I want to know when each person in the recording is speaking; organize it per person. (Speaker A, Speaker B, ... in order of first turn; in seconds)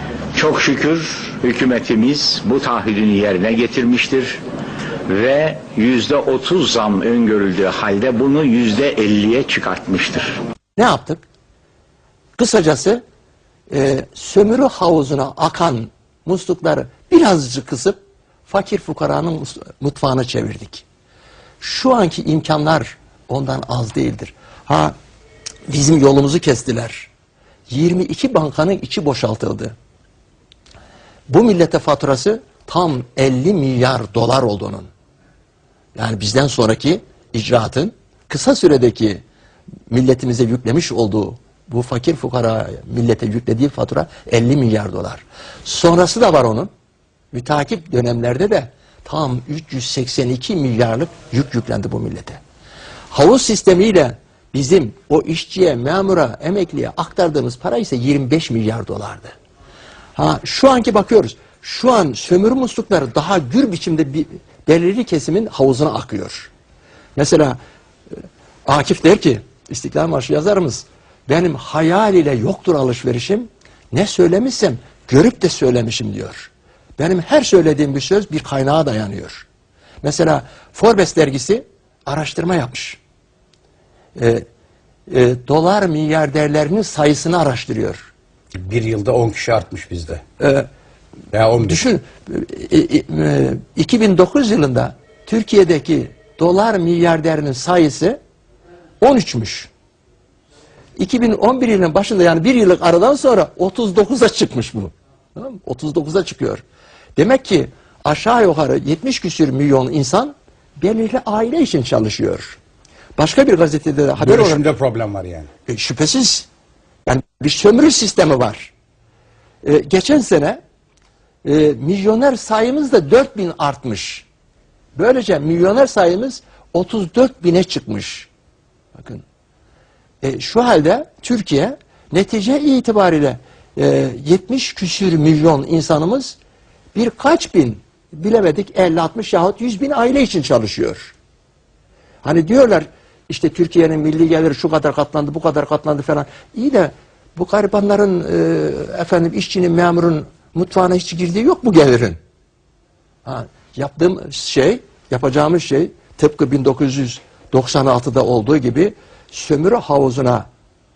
Speaker A: 0.3-4.4, 5.1-10.4, 89.4-90.1, 115.0-115.3
Speaker B: 10.8-11.2, 12.4-13.0, 13.7-20.8, 21.6-24.9, 25.7-27.1, 27.7-29.7, 31.3-34.9, 35.9-39.2, 39.9-46.7, 47.3-52.4, 53.1-59.3, 60.1-66.5, 67.2-67.6, 68.7-79.5, 80.0-83.0, 84.2-84.4, 85.1-88.1, 90.4-90.7, 91.6-98.2, 99.0-99.7, 101.0-106.6, 107.2-112.6, 113.2-114.6, 115.7-116.5, 117.0-118.7, 119.6-120.6, 121.4-124.2, 124.9-128.3, 128.9-129.2, 130.2-136.4, 136.9-141.1, 142.2-152.2, 153.2-160.4
Speaker C: 88.7-90.2, 91.3-91.7, 114.3-115.5